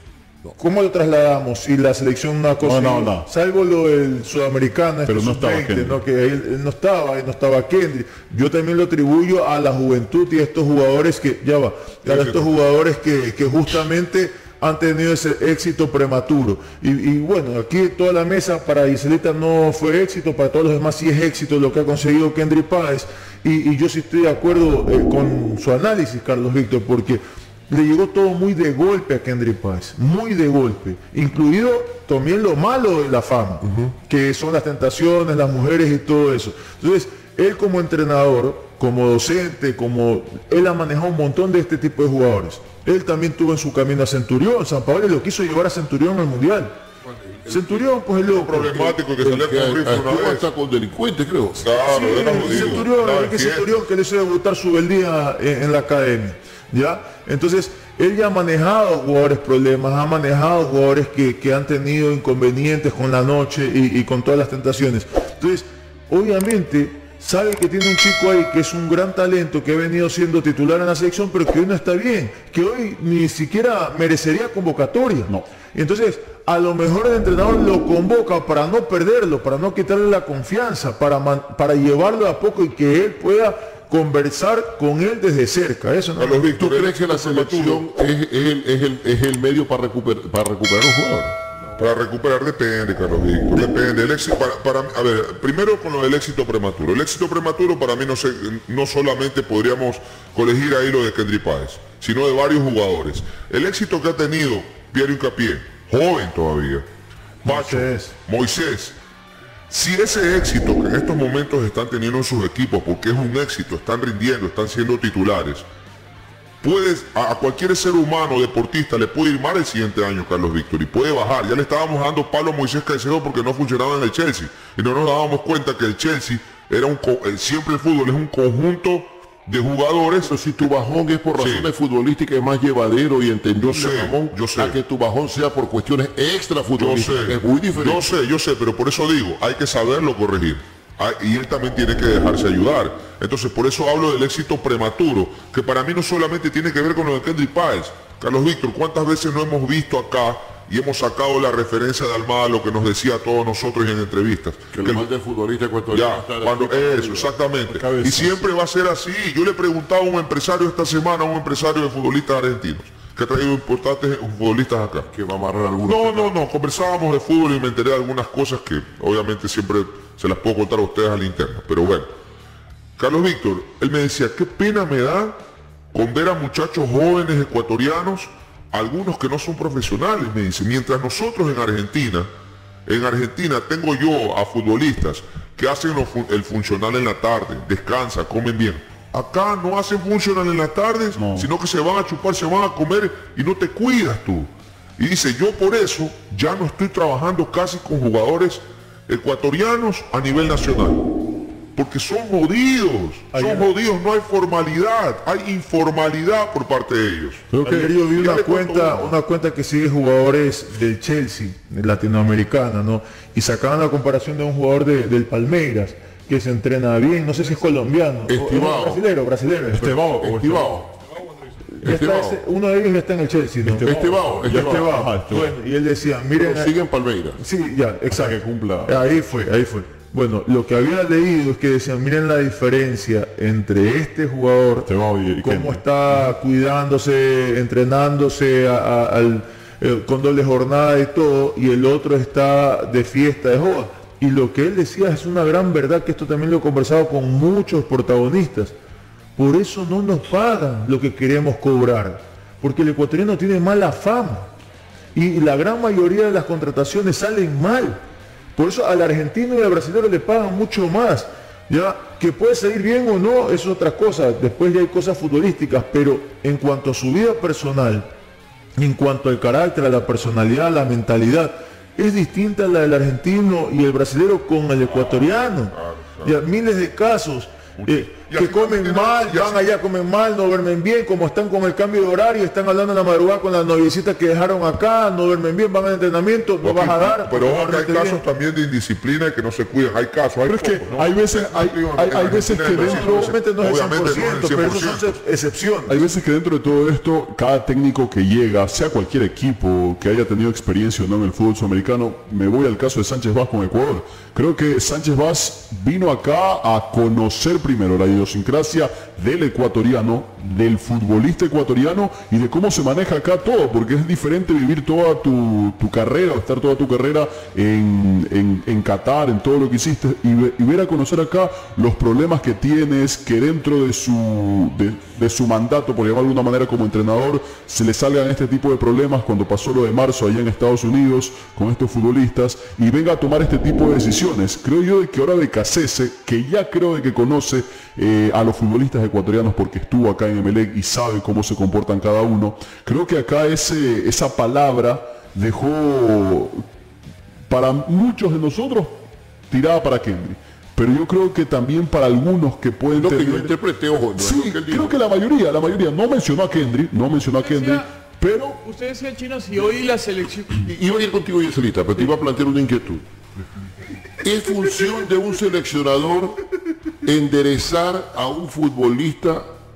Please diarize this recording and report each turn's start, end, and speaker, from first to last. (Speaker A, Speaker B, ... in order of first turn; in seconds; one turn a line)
Speaker A: 0.6-46.7
Speaker B: 2.6-3.3
Speaker B: 5.1-6.0
Speaker C: 12.1-12.5
Speaker A: 47.5-49.0
Speaker C: 48.3-50.5
Speaker D: 49.2-52.8
Speaker C: 51.6-53.7
Speaker A: 51.9-86.5
Speaker C: 86.2-87.8
Speaker D: 86.5-91.4
Speaker C: 91.8-106.9
Speaker C: 107.5-109.0
Speaker C: 109.7-115.7
Speaker C: 116.6-130.4
Speaker D: 130.3-138.1
Speaker C: 131.4-131.7
Speaker C: 133.6-134.8
Speaker C: 136.8-155.1
Speaker D: 154.7-157.3
Speaker C: 155.9-165.1
Speaker B: 157.7-158.5
Speaker D: 165.1-166.3
Speaker C: 165.9-172.1
Speaker C: 173.0-175.4
Speaker C: 175.9-182.3
Speaker C: 182.9-201.0
Speaker B: 191.1-191.5
Speaker C: 201.8-209.2
Speaker A: 203.3-203.7
Speaker A: 207.5-220.1
Speaker D: 218.3-219.0
Speaker B: 219.7-220.8
Speaker D: 220.1-220.9
Speaker A: 221.8-226.7
Speaker D: 221.8-222.4
Speaker B: 223.6-225.5
Speaker D: 223.8-225.0
Speaker D: 226.4-227.4
Speaker A: 227.4-234.9
Speaker B: 228.1-229.0
Speaker B: 234.8-236.2
Speaker A: 235.4-248.7
Speaker A: 249.4-254.5
Speaker A: 255.2-258.0
Speaker A: 258.6-268.1
Speaker A: 268.8-288.2
Speaker C: 274.9-276.4
Speaker C: 277.8-279.6
Speaker C: 286.6-295.1
Speaker B: 290.4-293.4
Speaker A: 292.8-296.0
Speaker B: 295.9-346.6
Speaker B: 347.5-353.5
Speaker D: 352.9-355.0
Speaker B: 354.2-358.6
Speaker E: 357.4-357.9
Speaker E: 358.6-360.7
Speaker D: 360.6-363.0
Speaker D: 364.2-366.4
Speaker D: 367.0-369.5